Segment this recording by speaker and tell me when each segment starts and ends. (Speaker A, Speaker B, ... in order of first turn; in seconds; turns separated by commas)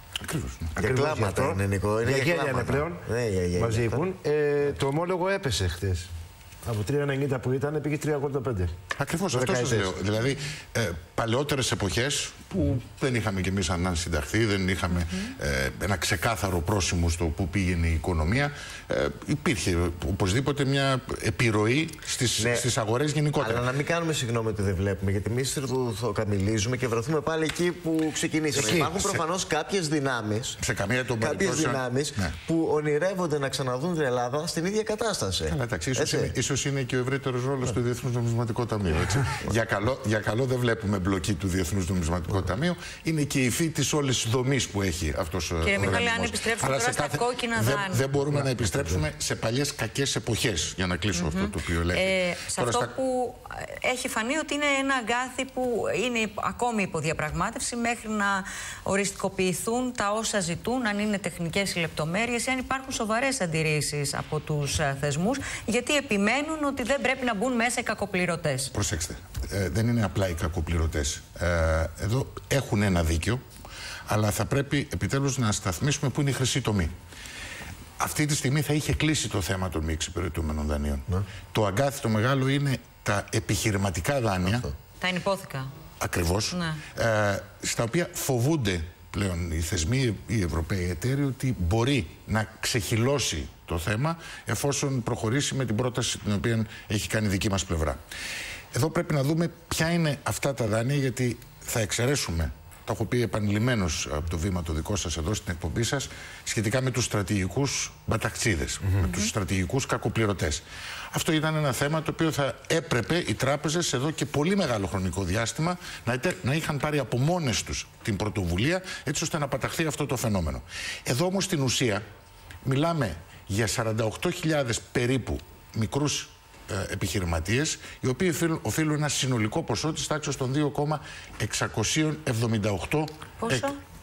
Speaker A: 0.2-0.8, Speaker B: 0.8-4.1, Speaker C: 0.8-6.1, Speaker C: 6.6-8.7, Speaker A: 9.0-23.6, Speaker C: 9.3-9.9, Speaker B: 9.5-9.8, Speaker B: 22.4-22.7, Speaker B: 23.4-30.6, Speaker C: 28.5-29.0, Speaker A: 28.9-29.2, Speaker A: 30.6-32.4, Speaker B: 31.2-36.3, Speaker A: 35.5-52.9, Speaker D: 45.6-48.1, Speaker C: 48.3-49.0, Speaker D: 51.1-68.7, Speaker A: 68.7-73.4, Speaker A: 74.1-76.9, Speaker A: 78.0-84.7, Speaker B: 84.4-84.8, Speaker D: 85.0-85.7, Speaker A: 86.0-98.0, Speaker D: 86.5-86.8, Speaker A: 98.7-122.0, Speaker D: 109.0-109.3, Speaker A: 122.7-133.7, Speaker D: 133.4-133.8